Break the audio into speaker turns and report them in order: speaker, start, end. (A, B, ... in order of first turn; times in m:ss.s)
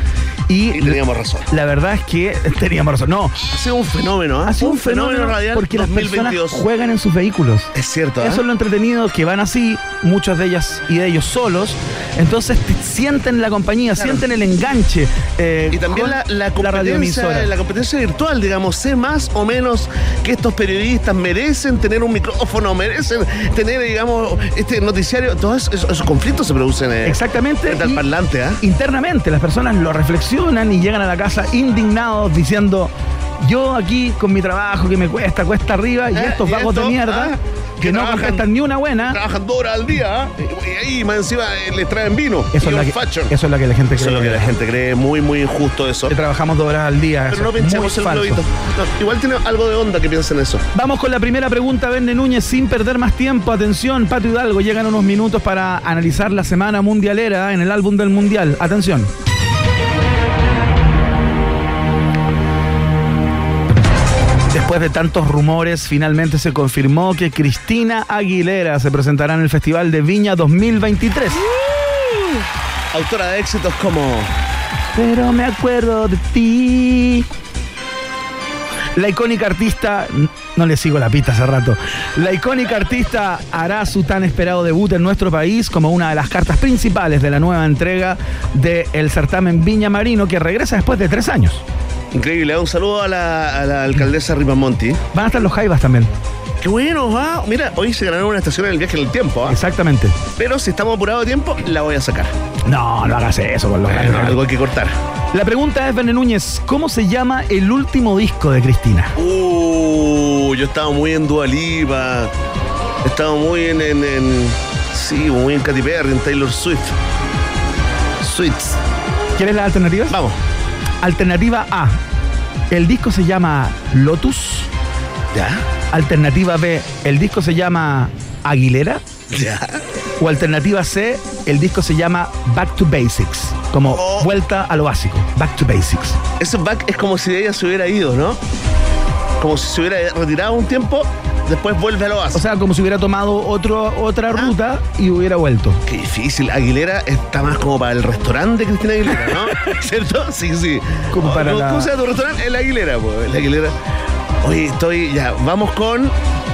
0:00.5-0:01.0 A
0:00.7-0:01.5 B
0:01.5-0:03.4 A
0:03.5-0:06.6 B
0:04.5-0:07.7 A
0:07.7-0:08.4 B
0:08.2-0:17.5 A
0:14.0-0:14.2 B
0:15.7-0:28.6 B
0:27.0-0:28.0 A
0:28.6-0:39.2 A
0:36.2-0:38.5 B
0:39.1-0:43.3 B
0:42.5-0:44.5 A
0:44.0-0:46.1 B
0:46.1-0:48.4 A
0:47.3-0:50.6 B
0:50.7-0:59.1 A
1:04.5-1:11.4 A
1:11.5-1:12.4 B
1:12.9-1:14.3 B
1:14.9-1:17.3 A
1:19.0-1:31.6 A
1:32.1-1:35.0 B
1:35.1-1:36.1 A
1:36.6-1:39.6 B
1:39.5-1:40.2 A
1:40.4-1:42.3 B
1:42.7-1:44.4 A
1:43.9-1:45.0 B
1:45.3-1:49.1 A
1:49.2-1:52.3 B
1:53.0-1:56.9 B
1:58.2-1:58.8 B
1:59.4-2:00.2 A
2:00.1-2:00.4 B
2:01.0-2:02.0 A
2:02.7-2:04.7 A
2:05.3-2:05.6 B
2:05.9-2:09.0 A
2:09.3-2:09.8 B
2:10.2-2:16.2 A
2:13.9-2:14.3 B
2:16.4-2:18.4 B
2:19.4-2:22.4 B
2:22.3-2:25.8 A
2:25.9-2:33.8 B
2:31.1-2:31.9 A
2:34.4-2:36.1 B